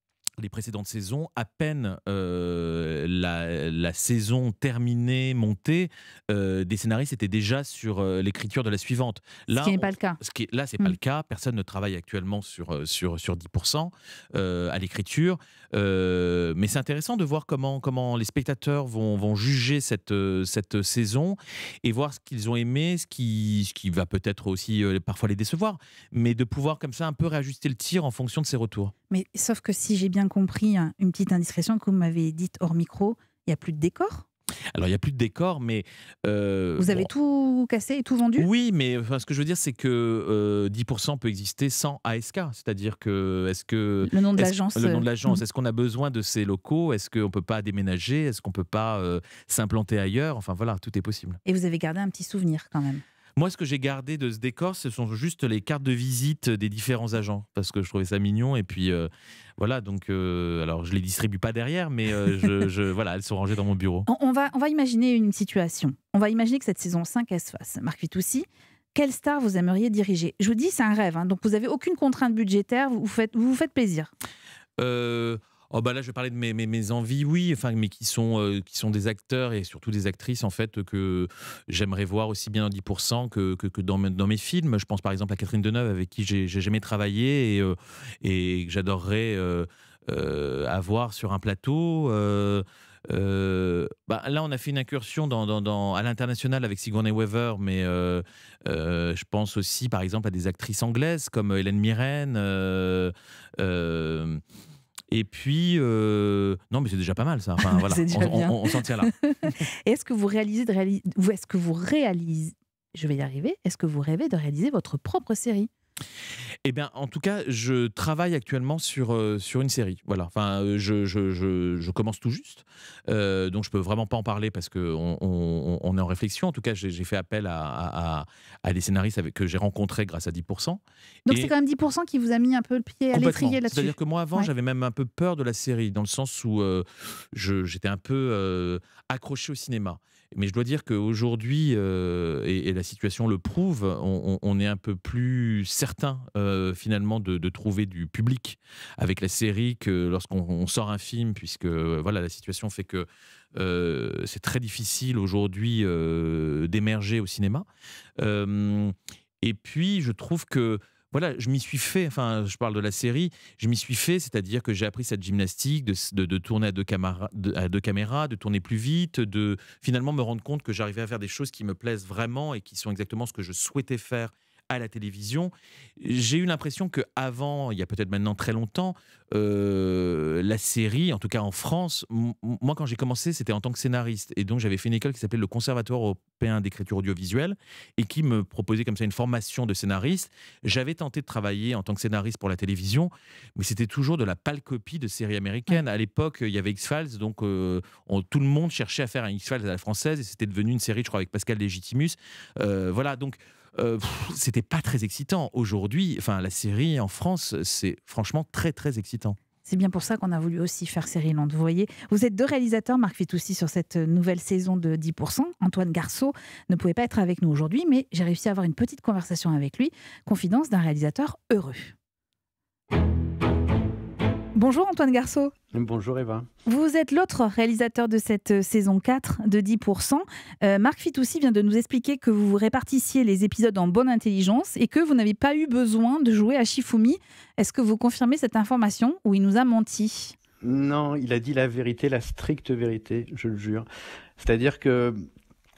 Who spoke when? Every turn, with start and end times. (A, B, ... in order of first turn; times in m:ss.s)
0:00.4-0:28.9 A
0:09.5-0:10.2 B
0:29.1-0:34.3 B
0:34.7-0:37.1 A
0:36.8-0:38.5 B
0:38.4-0:51.4 A
0:44.0-0:45.4 B
0:51.5-0:53.0 B
0:53.4-1:04.1 A
1:04.1-1:14.1 B
1:14.8-1:44.4 A
1:45.1-1:49.1 A
1:47.6-1:55.7 B
1:56.6-2:11.5 A
2:11.3-2:14.5 B
2:13.1-2:37.7 A
2:38.2-3:29.4 A
3:29.6-3:41.9 B
3:44.6-3:45.5 B
3:45.7-3:46.5 C
3:46.7-4:00.4 B
4:00.6-4:03.9 C
4:04.4-4:05.3 C